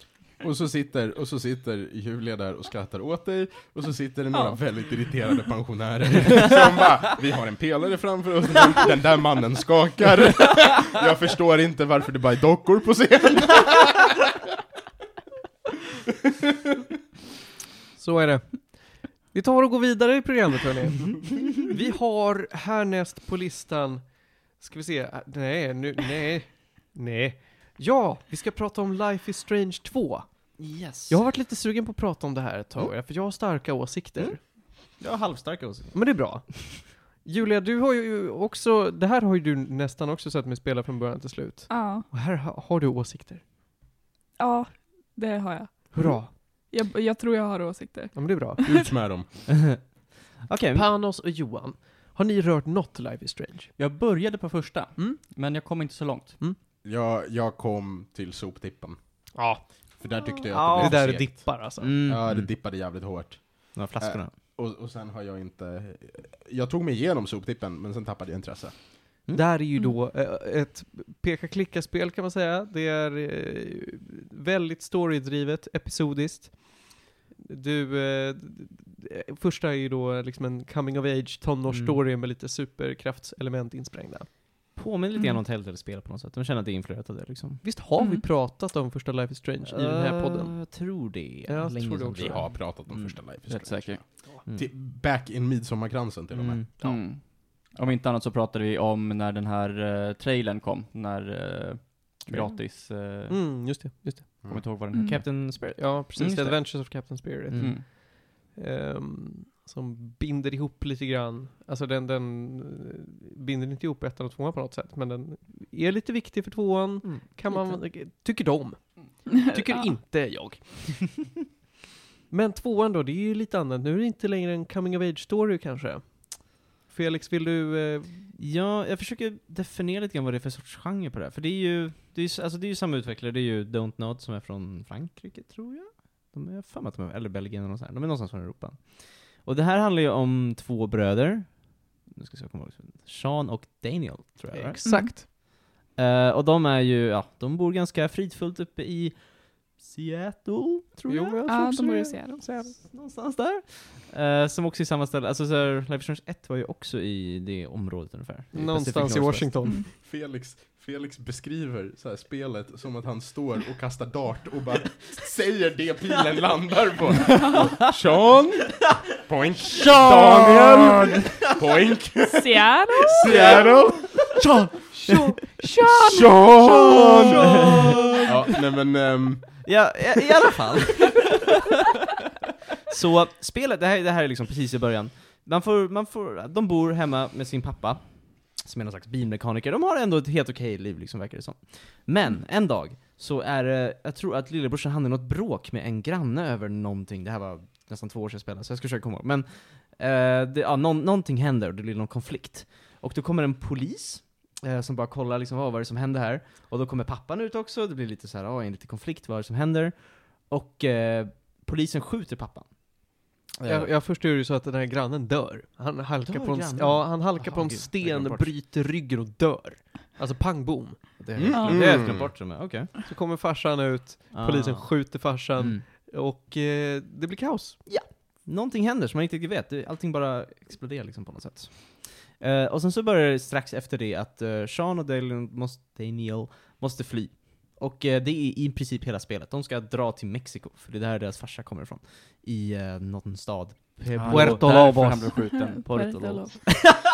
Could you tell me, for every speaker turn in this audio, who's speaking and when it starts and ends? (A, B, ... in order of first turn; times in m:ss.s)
0:00.4-0:14.2 A
0:04.3-0:04.6 B
0:18.0-0:34.4 C
0:30.6-0:31.2 D
0:34.2-0:36.5 D
0:35.9-0:43.4 C
0:41.7-0:42.1 B
0:44.4-0:48.9 B
0:45.9-0:46.3 C
0:48.1-0:48.6 C
0:48.6-0:49.3 A
0:49.5-0:49.8 D
0:50.4-0:50.9 D
0:50.7-0:53.7 C
0:53.8-0:56.4 E
0:56.8-0:59.3 A
0:59.3-1:00.0 C
1:00.0-1:08.8 A
1:00.5-1:02.0 C
1:00.6-1:01.1 D
1:01.8-1:02.4 D
1:03.7-1:04.3 D
1:09.3-1:24.3 C
1:21.7-1:22.0 D
1:24.7-1:27.6 D
1:27.6-1:30.7 C
1:28.0-1:28.2 B
1:29.6-1:32.5 D
1:31.4-1:32.5 C
1:32.2-1:36.6 A
1:32.9-1:34.1 E
1:36.3-1:36.7 D
1:36.8-1:43.4 E
1:42.3-1:42.7 C
1:43.3-1:44.3 C
1:44.4-1:44.8 A
1:44.5-1:45.5 E
1:44.9-1:45.2 B
1:45.0-1:46.0 D
1:45.8-2:01.4 C
1:46.2-1:46.9 E
1:47.5-1:47.7 D
1:47.6-1:47.8 E
1:57.0-1:57.8 D
1:59.4-1:59.8 B
2:02.3-2:08.3 C
2:08.4-2:25.4 D
2:24.5-2:25.2 C
2:24.8-2:25.2 B
2:25.9-2:39.8 D
2:31.1-2:32.7 C
2:31.5-2:32.7 B
2:38.5-2:39.8 C
2:39.9-2:54.4 A
2:47.4-2:47.8 B
2:49.8-2:51.2 D
2:52.2-2:53.6 B
2:53.2-2:53.7 D
2:54.8-2:58.3 C
2:56.0-2:57.5 A
2:56.1-2:58.3 D
2:58.2-2:59.6 A
2:59.6-3:01.2 D
3:02.9-3:33.0 D
3:33.6-3:33.9 D
3:33.6-3:42.3 C
3:36.2-3:38.6 D
3:41.2-3:42.9 D
3:41.4-3:42.3 A
3:41.5-3:41.8 B
3:43.0-3:47.8 C
3:44.3-3:44.9 D
3:45.6-3:45.8 D
3:47.8-4:05.1 D
4:04.1-4:05.9 E
4:04.2-4:05.4 C
4:05.6-4:06.7 B
4:05.8-4:06.8 D